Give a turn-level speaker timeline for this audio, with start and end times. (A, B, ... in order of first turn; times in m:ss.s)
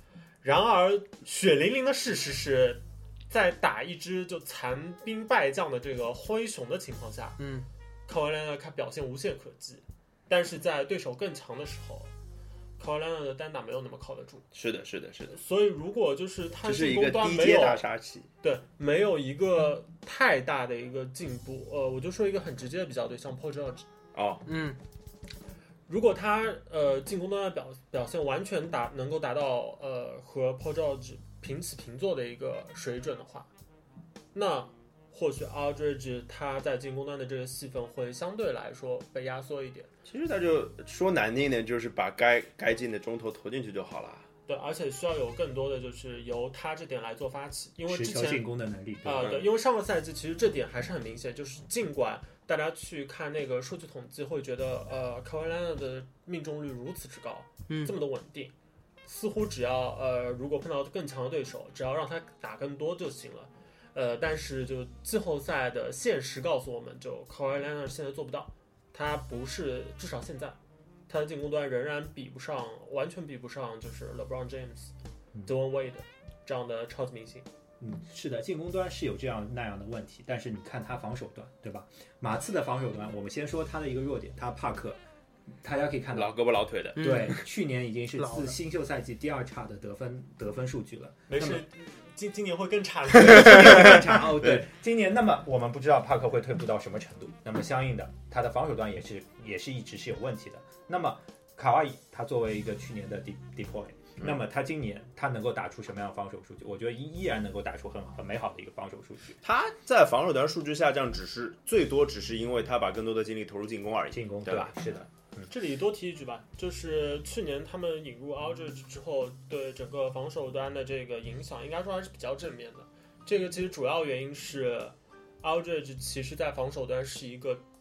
0:00.4-0:07.4 A
0:07.4-0:07.7 B
0:08.1-0:12.1 A
0:12.8-0:14.5 A
0:14.5-0:15.4 C
0:15.3-0:17.8 A
0:16.6-0:18.3 C
0:18.4-0:23.9 A
0:24.1-0:24.4 C
0:24.5-0:24.8 B
0:25.9-0:33.5 A
0:34.3-0:39.9 A
0:40.1-0:44.3 C
0:44.5-0:48.4 A
0:47.9-0:49.3 D
0:49.0-0:58.5 A
0:49.2-0:49.5 C
0:57.7-0:58.0 B
0:59.0-1:10.6 A
1:11.1-1:14.9 A
1:15.5-1:17.5 A
1:17.8-1:25.0 D
1:25.6-1:26.4 D
1:26.1-1:27.1 C
1:27.0-1:31.6 D
1:27.0-1:27.4 B
1:28.2-1:28.6 B
1:31.3-1:34.0 A
1:33.2-1:49.4 D
1:33.4-1:34.6 C
1:49.4-1:54.7 C
1:54.1-1:55.5 D
1:55.5-2:07.6 A